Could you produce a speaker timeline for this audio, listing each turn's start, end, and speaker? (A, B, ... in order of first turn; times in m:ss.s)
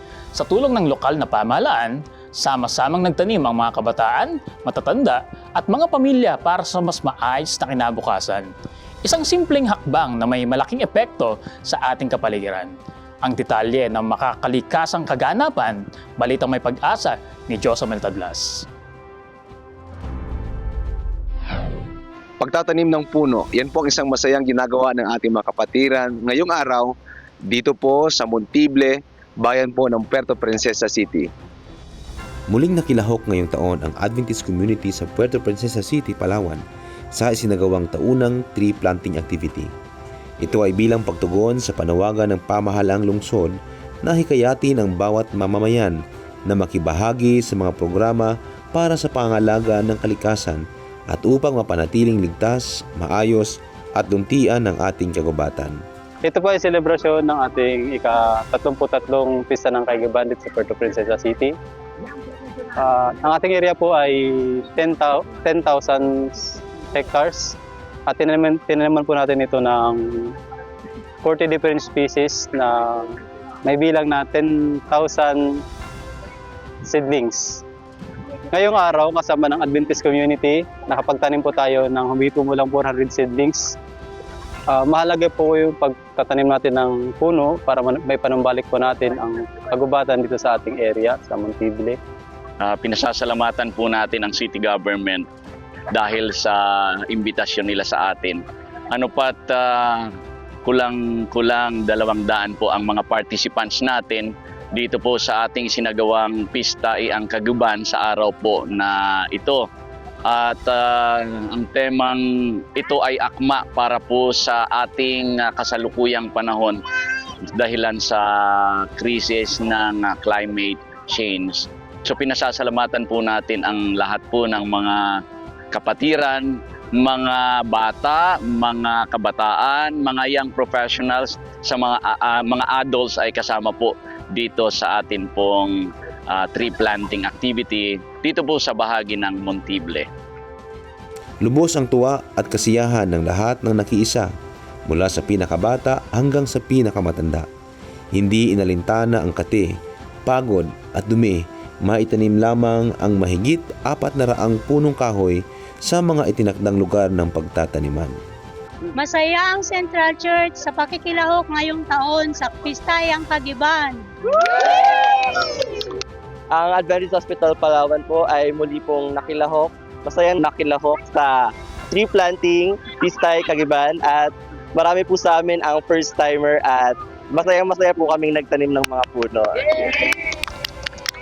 0:00.3-0:08.5 A
0:09.0-0:18.6 A
0:22.4-0:31.3 B
0:32.5-0:36.6 C
0:37.1-0:39.7 C
0:40.4-0:55.8 C
0:56.2-1:01.5 D
1:02.8-1:07.6 D
1:08.1-1:10.3 D
1:11.2-1:15.4 D
1:16.8-1:17.6 D
1:18.5-1:23.7 D
1:24.7-1:32.0 D
1:32.6-1:35.2 E
1:35.9-1:40.1 E
1:40.6-1:49.6 E
1:50.3-1:52.2 E
1:52.7-1:56.8 E
1:57.5-2:05.2 E
2:05.7-2:20.1 E
2:21.4-2:24.3 C
2:24.9-2:27.5 C
2:28.1-2:29.7 C
2:30.2-2:38.1 C
2:39.0-2:44.0 F
2:44.7-2:45.6 G
2:46.5-3:00.2 G